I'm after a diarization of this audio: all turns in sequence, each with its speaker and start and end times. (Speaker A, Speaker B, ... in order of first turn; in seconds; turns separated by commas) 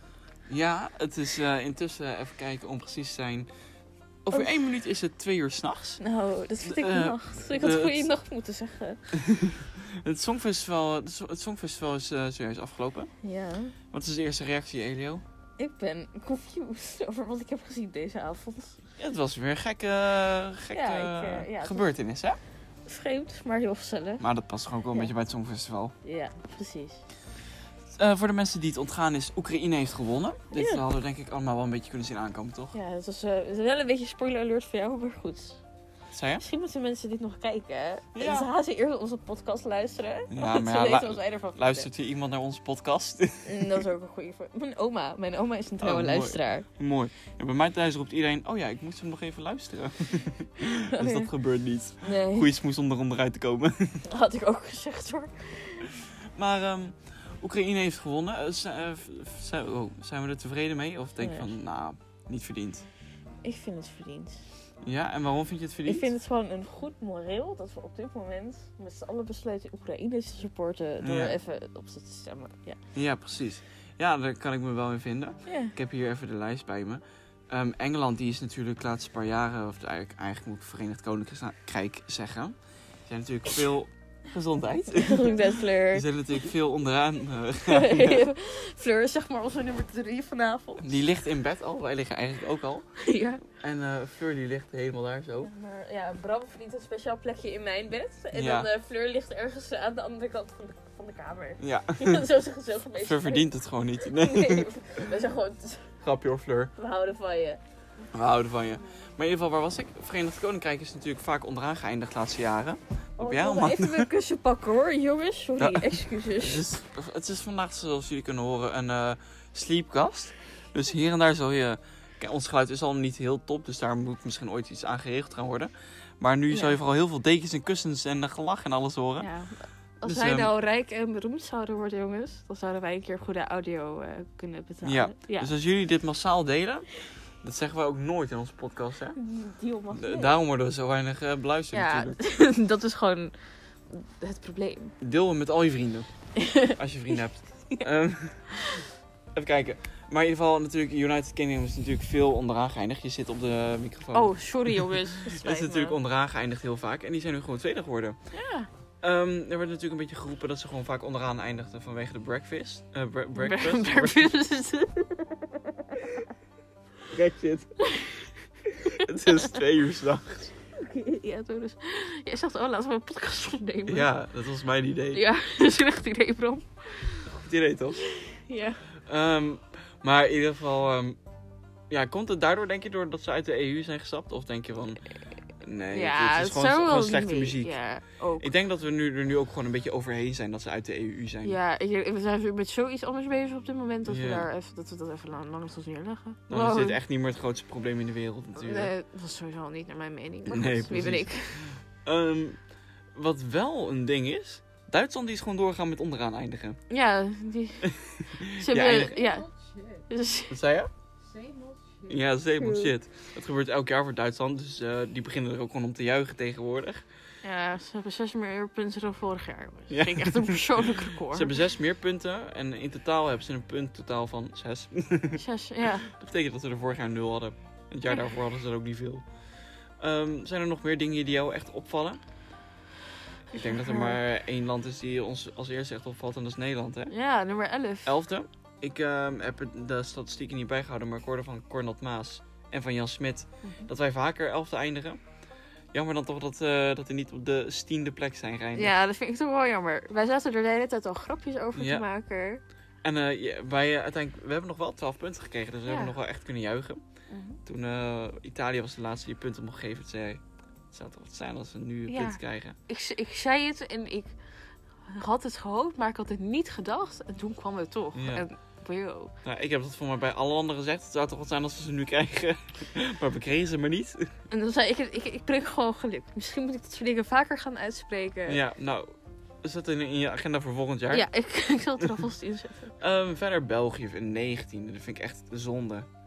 Speaker A: 0.5-3.5, Speaker A: 4.2-6.0, Speaker B: 6.0-9.1, Speaker A: 6.6-8.1, Speaker A: 9.1-13.1, Speaker B: 13.2-13.8, Speaker A: 13.9-15.2, Speaker B: 15.6-18.8, Speaker A: 19.0-22.4, Speaker B: 20.7-21.9, Speaker B: 22.9-24.2, Speaker A: 24.2-25.9, Speaker B: 26.0-27.0, Speaker A: 27.9-32.8, Speaker B: 30.5-30.8, Speaker B: 32.7-35.6, Speaker A: 36.1-36.5, Speaker B: 36.4-41.9, Speaker A: 38.1-38.5, Speaker A: 40.3-43.8, Speaker B: 43.5-46.7, Speaker A: 45.8-54.0, Speaker B: 50.8-51.3, Speaker B: 52.0-52.5, Speaker B: 54.1-55.9, Speaker A: 56.3-62.9, Speaker B: 61.2-61.6, Speaker B: 63.4-64.5, Speaker A: 64.8-66.1, Speaker B: 65.9-72.8, Speaker A: 71.0-71.4, Speaker A: 72.9-82.6, Speaker B: 75.5-75.7, Speaker A: 83.1-88.3, Speaker B: 84.9-86.0, Speaker B: 87.7-91.0, Speaker A: 90.8-92.9, Speaker B: 93.0-93.4, Speaker A: 93.6-95.5, Speaker B: 95.4-103.5, Speaker A: 98.3-98.7, Speaker A: 101.6-102.3, Speaker A: 103.0-104.7, Speaker B: 104.0-105.9, Speaker A: 106.0-106.7, Speaker B: 106.8-107.6, Speaker C: 108.0-109.1, Speaker A: 108.1-114.1, Speaker B: 113.2-116.7, Speaker A: 115.6-129.3, Speaker B: 126.5-126.8, Speaker B: 129.2-135.5, Speaker A: 130.0-130.5, Speaker A: 134.8-139.2, Speaker B: 139.2-140.4, Speaker A: 139.9-142.2, Speaker B: 141.7-144.9, Speaker A: 145.0-146.1, Speaker B: 146.4-146.8, Speaker A: 146.6-148.5, Speaker A: 149.3-158.2, Speaker B: 154.1-156.0, Speaker B: 158.3-158.7, Speaker A: 159.0-164.3, Speaker B: 163.4-165.5, Speaker A: 167.1-167.8, Speaker A: 169.0-170.5, Speaker B: 169.3-169.6, Speaker B: 170.8-174.1, Speaker A: 173.9-175.2, Speaker B: 175.1-177.3, Speaker A: 177.3-178.0, Speaker B: 178.2-178.8, Speaker A: 179.1-181.2, Speaker A: 181.9-185.1, Speaker A: 185.6-187.8, Speaker B: 185.9-188.5, Speaker A: 188.4-191.6, Speaker B: 191.4-197.0, Speaker A: 194.1-194.5, Speaker A: 196.5-198.9, Speaker B: 198.6-201.8, Speaker A: 200.5-202.6, Speaker A: 203.2-206.8, Speaker B: 206.9-207.9, Speaker A: 208.4-209.1, Speaker B: 208.6-209.4, Speaker C: 208.8-210.1, Speaker B: 210.1-210.5, Speaker A: 210.5-210.9, Speaker C: 211.2-212.2, Speaker A: 212.1-217.0, Speaker B: 212.6-212.9, Speaker B: 217.4-221.5, Speaker A: 219.9-225.4, Speaker B: 225.3-226.1, Speaker A: 226.1-229.2, Speaker A: 230.0-232.2, Speaker A: 233.5-237.1, Speaker B: 233.5-234.2, Speaker B: 237.1-238.2, Speaker A: 238.1-245.2, Speaker B: 243.6-243.9, Speaker A: 245.9-248.9, Speaker B: 248.8-252.6, Speaker A: 251.8-252.1, Speaker A: 253.0-257.0, Speaker B: 255.9-256.2, Speaker B: 257.3-257.6, Speaker A: 257.7-262.8, Speaker B: 262.1-264.4, Speaker B: 265.0-269.3, Speaker A: 268.1-268.4, Speaker A: 269.4-274.3, Speaker B: 274.5-278.6, Speaker A: 278.5-281.3, Speaker B: 281.1-282.9, Speaker A: 283.0-286.1